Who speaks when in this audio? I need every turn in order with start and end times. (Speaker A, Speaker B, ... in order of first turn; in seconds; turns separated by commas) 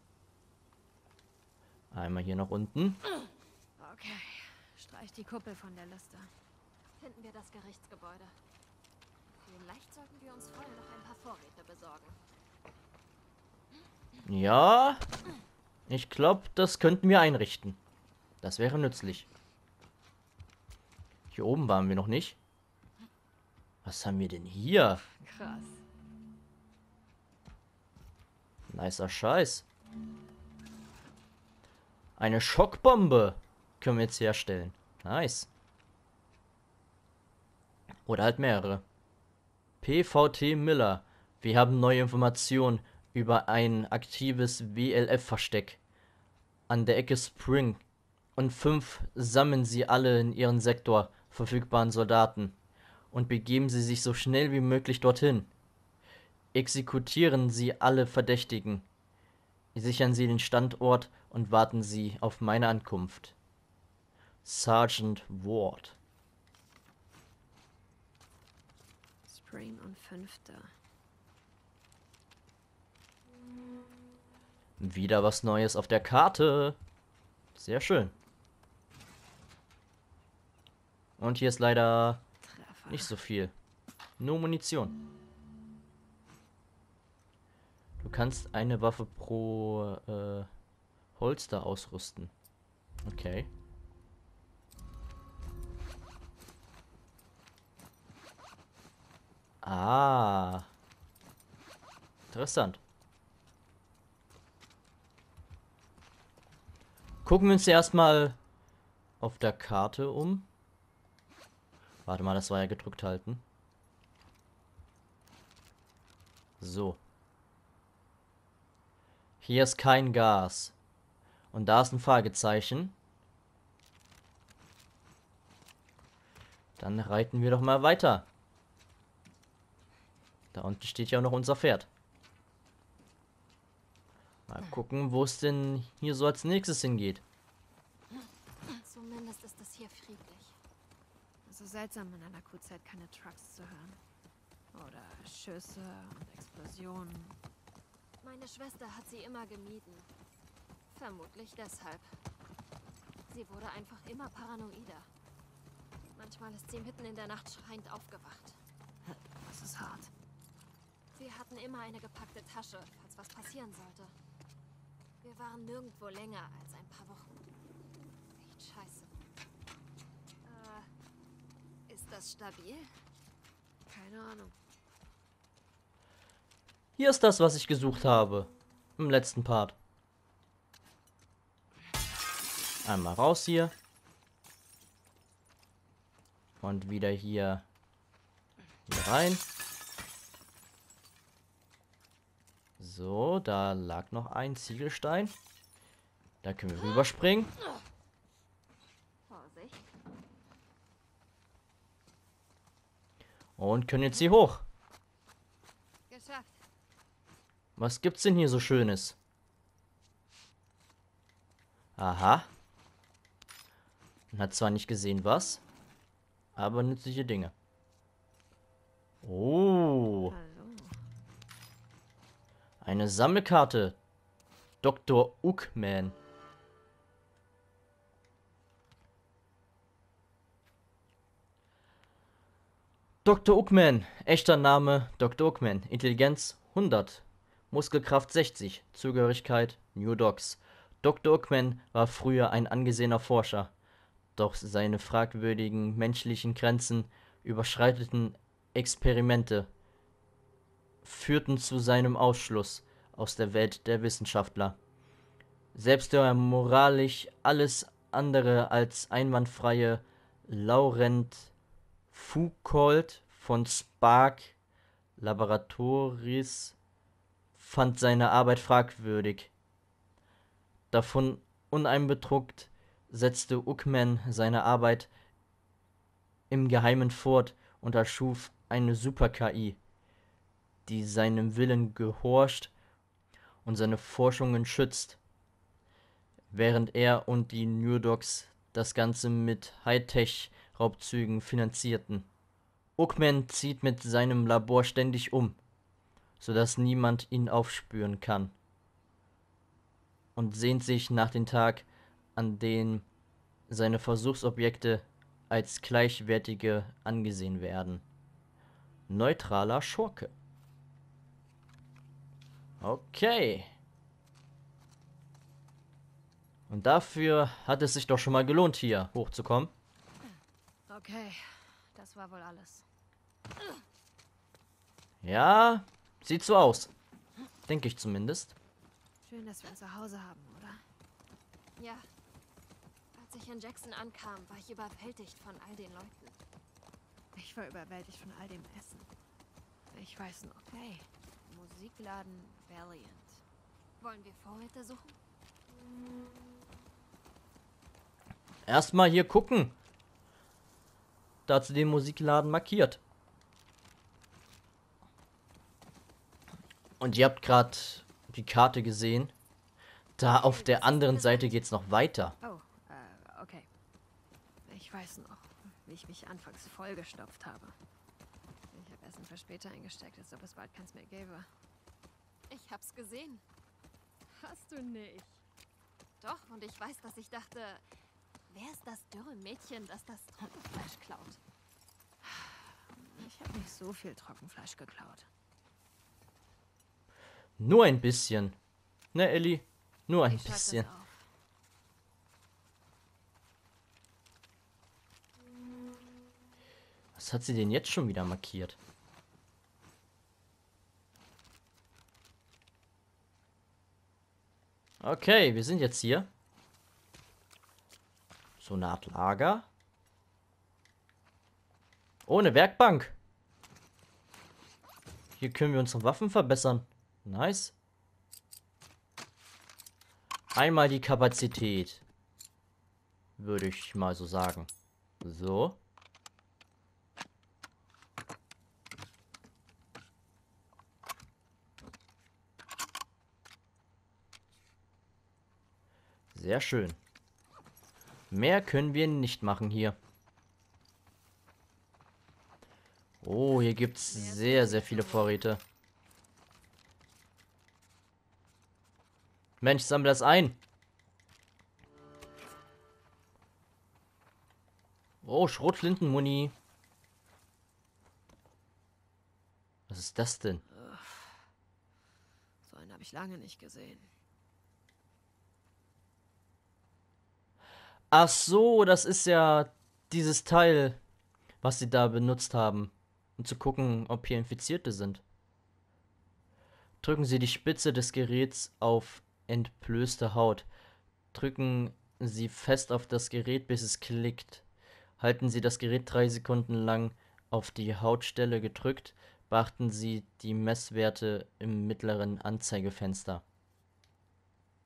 Speaker A: 1.9-3.0, Speaker B: 3.8-6.3, Speaker C: 7.0-8.3, Speaker C: 9.4-12.2, Speaker A: 14.2-15.0, Speaker A: 15.9-17.8, Speaker A: 18.4-19.2, Speaker A: 21.3-22.4, Speaker A: 23.8-25.0, Speaker B: 25.1-25.8, Speaker A: 28.7-29.6, Speaker A: 32.2-35.5, Speaker A: 38.0-38.8, Speaker A: 39.8-45.8, Speaker A: 46.7-47.8, Speaker A: 48.4-52.5, Speaker A: 53.1-55.5, Speaker A: 56.5-58.9, Speaker A: 59.7-63.3, Speaker A: 64.4-66.0, Speaker B: 69.3-70.7, Speaker A: 74.8-76.8, Speaker A: 77.5-78.1, Speaker A: 81.2-82.2, Speaker B: 82.4-83.1, Speaker A: 82.9-83.5, Speaker A: 84.2-85.0, Speaker A: 88.0-90.5, Speaker A: 91.2-92.3, Speaker A: 93.0-93.5, Speaker A: 99.6-100.7, Speaker A: 102.3-102.8, Speaker A: 107.2-108.4, Speaker A: 109.2-110.5, Speaker A: 112.0-113.4, Speaker A: 116.6-117.0, Speaker A: 119.4-120.7, Speaker A: 121.5-122.9, Speaker A: 126.8-128.2, Speaker A: 130.5-131.9, Speaker A: 134.5-137.2, Speaker C: 138.7-140.6, Speaker B: 141.4-144.0, Speaker B: 144.7-147.4, Speaker C: 148.2-150.1, Speaker C: 150.9-152.1, Speaker C: 153.3-155.1, Speaker C: 156.1-158.6, Speaker B: 159.1-160.1, Speaker C: 161.1-164.1, Speaker C: 165.2-167.3, Speaker C: 168.4-169.2, Speaker C: 170.4-170.9, Speaker C: 171.9-172.9, Speaker B: 173.9-174.6, Speaker A: 177.0-179.8, Speaker A: 182.8-183.7, Speaker A: 186.6-187.6, Speaker A: 188.9-189.4, Speaker A: 192.8-195.3, Speaker A: 196.4-197.5, Speaker C: 199.3-199.8, Speaker A: 203.6-204.6, Speaker C: 206.1-206.6, Speaker A: 207.8-209.2, Speaker A: 212.0-212.5, Speaker A: 214.3-215.6, Speaker A: 216.6-217.5, Speaker A: 219.2-220.3, Speaker B: 220.3-220.9, Speaker A: 222.8-224.0, Speaker A: 224.8-226.1, Speaker A: 233.2-243.7, Speaker A: 244.3-249.7, Speaker A: 251.0-254.8, Speaker A: 255.7-261.5, Speaker A: 262.1-264.5, Speaker A: 265.2-266.8, Speaker A: 267.5-269.5, Speaker A: 270.9-275.1, Speaker A: 276.5-279.8, Speaker A: 280.9-282.7, Speaker A: 283.6-285.2, Speaker A: 286.5-292.3, Speaker A: 293.0-295.6, Speaker A: 296.4-298.5, Speaker A: 300.4-303.0, Speaker A: 303.7-308.0, Speaker A: 309.1-310.3, Speaker A: 312.8-313.7, Speaker A: 316.7-319.7, Speaker B: 320.9-322.9, Speaker A: 325.2-326.9, Speaker A: 327.7-328.5, Speaker B: 329.2-330.8, Speaker C: 331.8-332.1, Speaker C: 333.1-336.4, Speaker B: 337.3-339.1, Speaker B: 339.9-343.4, Speaker C: 344.0-345.2, Speaker A: 348.6-349.7, Speaker A: 351.4-353.0, Speaker A: 357.0-359.3, Speaker A: 360.2-362.3, Speaker C: 360.3-361.5, Speaker B: 362.4-363.7, Speaker B: 364.6-367.8, Speaker B: 368.7-371.5, Speaker C: 372.5-373.4, Speaker B: 374.4-375.4, Speaker C: 376.2-377.8, Speaker C: 378.5-381.4, Speaker B: 382.2-385.3, Speaker A: 387.6-388.6, Speaker A: 389.1-390.9, Speaker B: 390.3-391.2, Speaker A: 397.1-398.8, Speaker A: 405.0-406.3, Speaker A: 408.6-409.7, Speaker A: 412.2-413.1, Speaker A: 415.4-417.7, Speaker A: 420.5-422.0, Speaker A: 423.4-424.7, Speaker A: 425.2-425.8, Speaker A: 436.3-437.0, Speaker A: 438.3-440.0, Speaker A: 443.2-445.6, Speaker C: 443.9-445.4, Speaker A: 449.6-450.6, Speaker A: 455.2-456.5, Speaker A: 459.9-460.6, Speaker B: 460.7-461.4, Speaker B: 462.6-464.1, Speaker A: 468.1-471.0, Speaker A: 471.6-475.2, Speaker A: 477.0-480.6, Speaker A: 481.3-484.6, Speaker A: 485.2-493.4